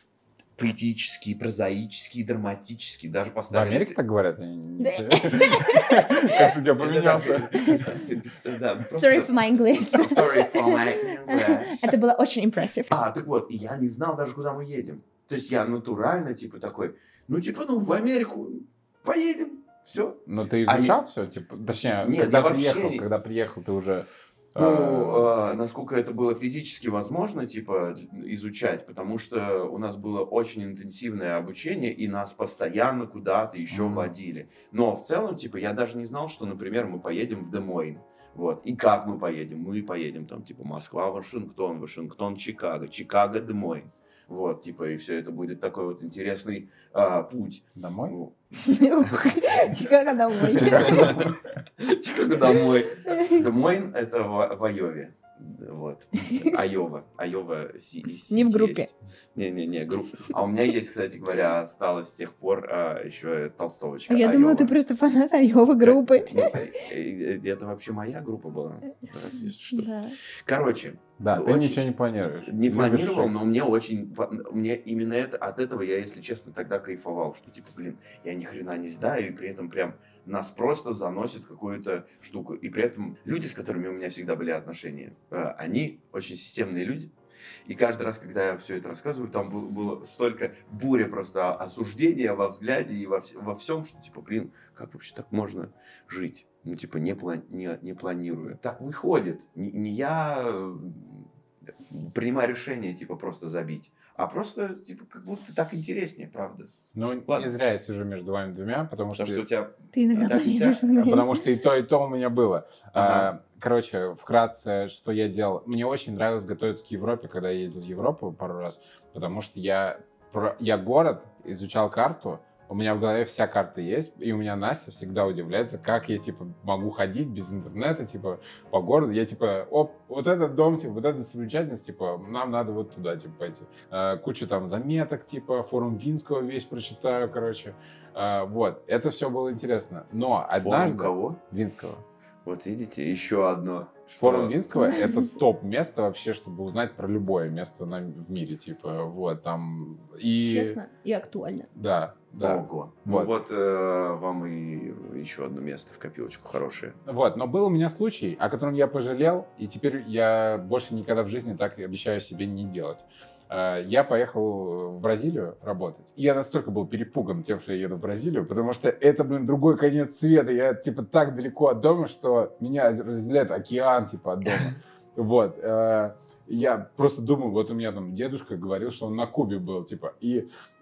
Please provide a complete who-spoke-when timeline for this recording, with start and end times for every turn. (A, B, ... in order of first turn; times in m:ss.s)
0:00.6-0:04.0 A
0:03.5-0:07.9 B
0:04.8-0:06.4 C
0:06.4-0:11.9 A
0:07.6-0:07.9 C
0:08.9-0:13.0 C
0:12.9-0:21.0 A
0:20.3-0:25.3 B
0:21.9-0:23.1 A
0:24.6-0:48.4 A
0:33.7-0:34.1 B
0:47.8-0:48.2 B
0:48.5-0:51.2 C
0:50.4-1:04.8 A
0:50.8-0:51.3 B
0:53.1-0:53.4 C
0:56.2-0:56.6 C
0:58.3-0:58.9 C
1:04.1-1:06.9 C
1:05.8-1:09.9 A
1:09.7-1:10.2 C
1:10.4-1:11.8 A
1:11.2-1:13.4 B
1:12.4-1:27.1 A
1:27.7-1:41.3 A
1:41.9-1:46.7 A
1:46.9-1:49.5 B
1:47.3-1:47.5 A
1:49.1-1:50.8 A
1:49.9-1:51.5 C
1:51.0-2:22.0 B
1:53.0-1:53.3 A
2:20.6-2:21.4 A
2:22.4-2:24.6 A
2:24.2-2:30.8 B
2:30.4-2:31.7 C
2:31.7-2:33.4 B
2:32.4-2:37.0 A
2:37.0-3:00.5 B